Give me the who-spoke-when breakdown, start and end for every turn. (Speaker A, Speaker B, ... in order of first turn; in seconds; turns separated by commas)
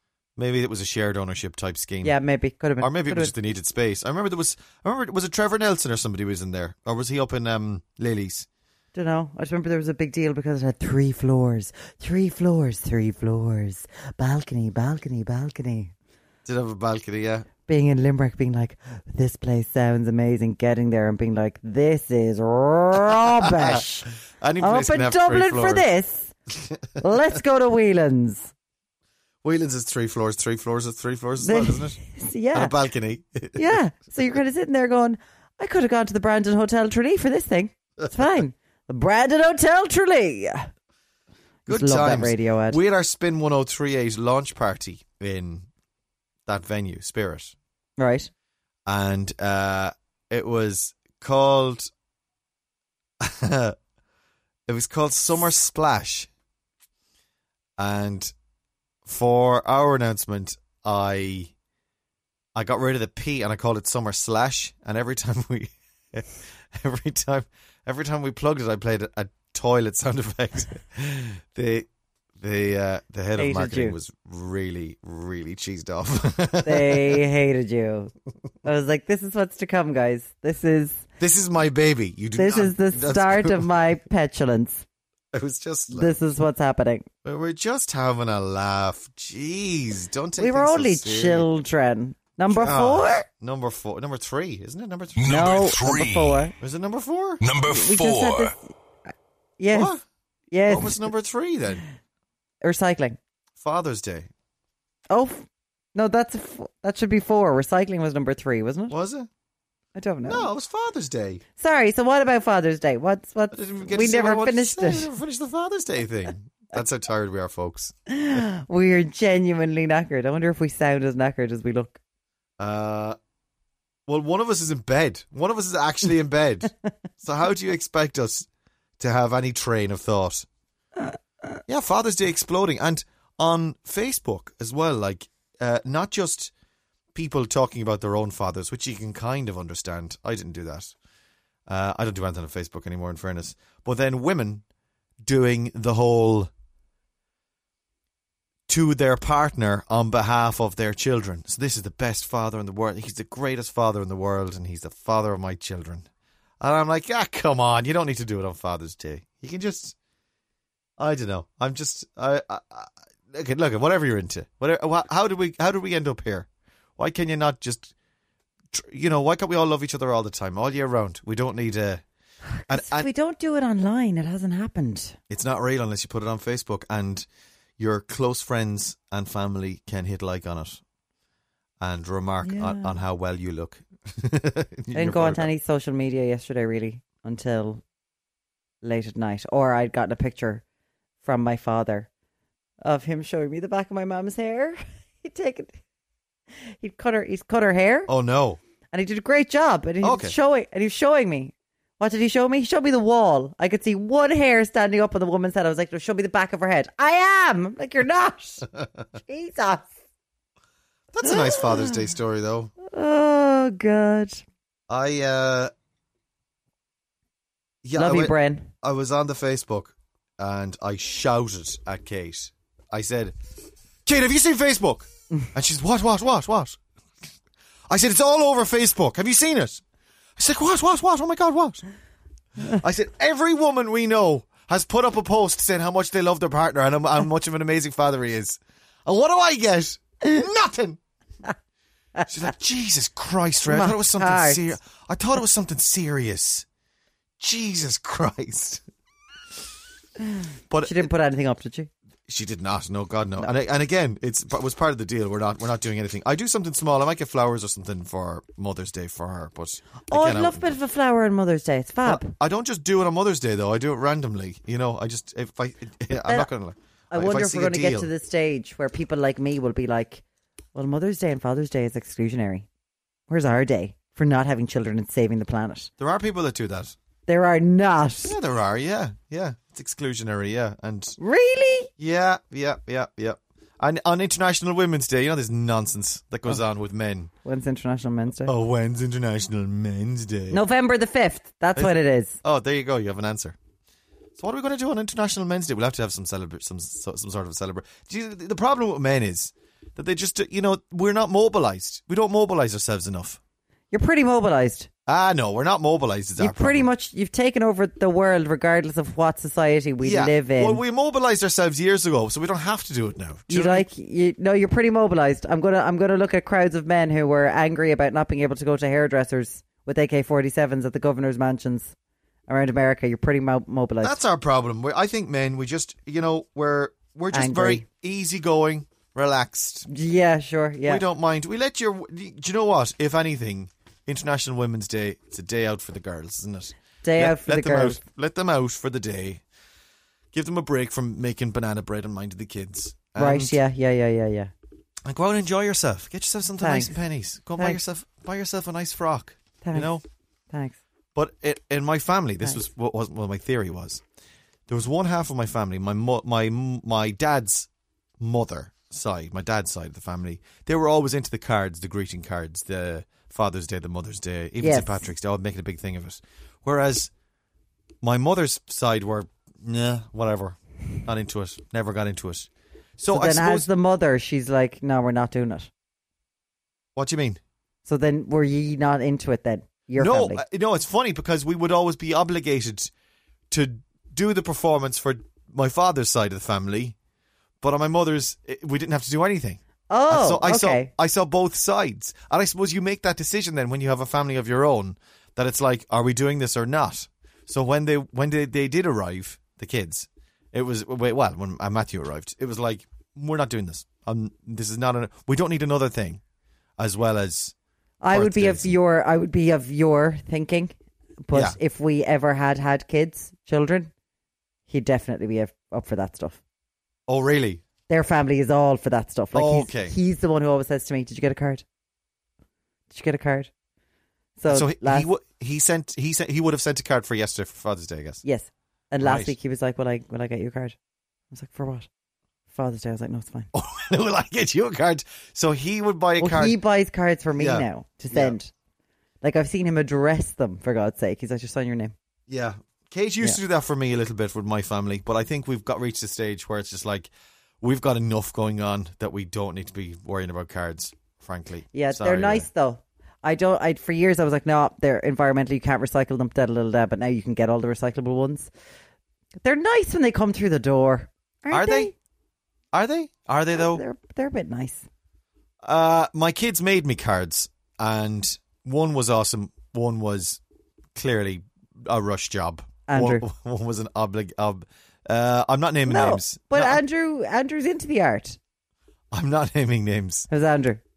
Speaker A: 0.4-2.1, Speaker B: 2.0-3.3, Speaker A: 2.8-8.5, Speaker B: 8.9-15.9, Speaker A: 16.4-17.5, Speaker B: 17.7-26.3, Speaker A: 23.2-23.8, Speaker A: 24.4-25.8, Speaker A: 26.6-27.0, Speaker B: 27.0-28.5, Speaker A: 29.4-32.0, Speaker B: 31.4-32.7, Speaker A: 32.5-33.8, Speaker B: 33.5-40.7, Speaker A: 41.6-45.7, Speaker B: 41.7-42.8, Speaker A: 46.5-47.5, Speaker B: 48.0-48.3, Speaker A: 48.9-51.9, Speaker A: 53.2-53.8, Speaker A: 54.7-56.3, Speaker A: 57.8-58.3, Speaker A: 59.0-61.5, Speaker A: 62.5-71.9, Speaker A: 72.4-77.2, Speaker B: 73.3-74.0, Speaker B: 76.6-78.1, Speaker B: 78.6-81.0, Speaker A: 81.2-83.7, Speaker B: 82.3-84.8, Speaker A: 85.3-86.1, Speaker B: 85.9-87.1, Speaker A: 87.2-91.5, Speaker B: 90.4-93.3, Speaker A: 92.5-95.4, Speaker C: 95.2-96.5, Speaker B: 95.2-96.5, Speaker A: 96.6-97.4, Speaker C: 97.4-98.5, Speaker B: 97.7-98.6, Speaker B: 99.1-99.9, Speaker A: 99.7-100.0, Speaker B: 100.5-101.1, Speaker A: 100.7-101.8, Speaker B: 102.6-103.2, Speaker A: 103.6-104.3, Speaker B: 105.1-108.9, Speaker A: 108.9-109.3, Speaker B: 110.0-110.5, Speaker A: 110.2-111.4, Speaker B: 111.6-115.1, Speaker A: 113.5-118.4, Speaker B: 118.1-122.0, Speaker A: 122.6-123.2, Speaker A: 124.1-128.5, Speaker A: 129.0-130.4, Speaker A: 131.7-136.5, Speaker A: 137.1-140.9, Speaker A: 141.7-144.6, Speaker A: 145.2-146.5, Speaker A: 148.7-156.1, Speaker A: 156.6-159.9, Speaker A: 161.0-167.9, Speaker A: 168.7-172.0, Speaker B: 172.5-175.2, Speaker A: 172.7-173.1, Speaker A: 175.3-177.2, Speaker A: 177.8-180.8, Speaker A: 181.8-185.5, Speaker B: 182.4-182.9, Speaker B: 184.9-187.8, Speaker B: 188.8-190.6, Speaker B: 191.2-192.1, Speaker B: 192.8-195.8, Speaker B: 196.8-198.1, Speaker A: 198.1-198.6, Speaker B: 198.9-209.9, Speaker A: 200.0-200.3, Speaker A: 211.1-212.7, Speaker B: 211.2-212.0, Speaker B: 212.8-214.4, Speaker A: 214.9-215.7, Speaker A: 217.8-223.3, Speaker B: 217.9-218.7, Speaker A: 224.0-226.8, Speaker A: 227.9-229.8, Speaker A: 230.4-231.8, Speaker A: 232.7-241.0, Speaker A: 242.3-246.6, Speaker B: 243.6-244.7, Speaker A: 247.4-248.8, Speaker B: 250.3-251.9, Speaker A: 250.7-251.1, Speaker A: 252.3-260.8, Speaker B: 260.1-262.3, Speaker A: 262.0-268.1, Speaker B: 266.1-266.5, Speaker B: 267.1-270.2, Speaker B: 270.7-272.7, Speaker B: 273.3-275.9, Speaker A: 276.0-276.9, Speaker B: 277.3-278.3, Speaker A: 278.2-281.2, Speaker B: 281.2-281.9, Speaker A: 282.0-287.3, Speaker B: 287.4-288.5, Speaker A: 288.4-290.6, Speaker B: 290.5-292.4, Speaker A: 291.8-293.6, Speaker A: 294.4-303.4, Speaker B: 303.9-304.9, Speaker A: 305.1-306.9, Speaker B: 306.4-310.8, Speaker A: 310.0-313.9, Speaker B: 313.5-321.9, Speaker B: 322.5-324.2, Speaker A: 324.0-329.9, Speaker B: 327.3-327.9, Speaker B: 329.9-331.0, Speaker A: 330.9-339.4, Speaker B: 337.0-338.0, Speaker A: 340.3-343.6, Speaker B: 343.2-344.5, Speaker A: 345.1-350.0, Speaker B: 346.6-346.9, Speaker B: 349.6-349.9, Speaker B: 350.5-350.8, Speaker A: 351.1-354.0, Speaker A: 354.7-357.7, Speaker A: 358.2-367.1, Speaker B: 364.6-365.1, Speaker A: 368.0-373.7, Speaker B: 373.1-375.7, Speaker A: 376.9-377.4, Speaker B: 377.9-380.4, Speaker A: 380.0-382.9, Speaker A: 383.5-386.9, Speaker A: 387.6-406.2, Speaker B: 389.9-390.9, Speaker A: 406.8-407.5, Speaker B: 408.0-413.9, Speaker A: 408.1-408.7, Speaker A: 411.3-411.6, Speaker B: 414.7-416.4, Speaker A: 417.1-417.6, Speaker B: 417.9-421.6, Speaker A: 419.3-419.9, Speaker B: 422.9-423.5, Speaker B: 424.4-425.1, Speaker A: 424.5-428.2, Speaker B: 428.2-430.8, Speaker A: 429.0-429.3, Speaker B: 431.3-431.9, Speaker B: 432.5-433.5, Speaker A: 433.5-436.6, Speaker B: 436.2-438.5, Speaker A: 437.3-438.4, Speaker B: 439.2-441.9, Speaker A: 442.3-447.1, Speaker A: 447.6-452.5, Speaker B: 451.7-458.5, Speaker B: 459.4-461.9, Speaker A: 461.5-461.9, Speaker A: 462.7-463.8, Speaker B: 463.5-464.9, Speaker A: 465.6-470.4, Speaker A: 470.9-476.8, Speaker B: 472.9-473.2, Speaker B: 475.9-478.4, Speaker A: 479.1-480.3, Speaker B: 480.3-480.8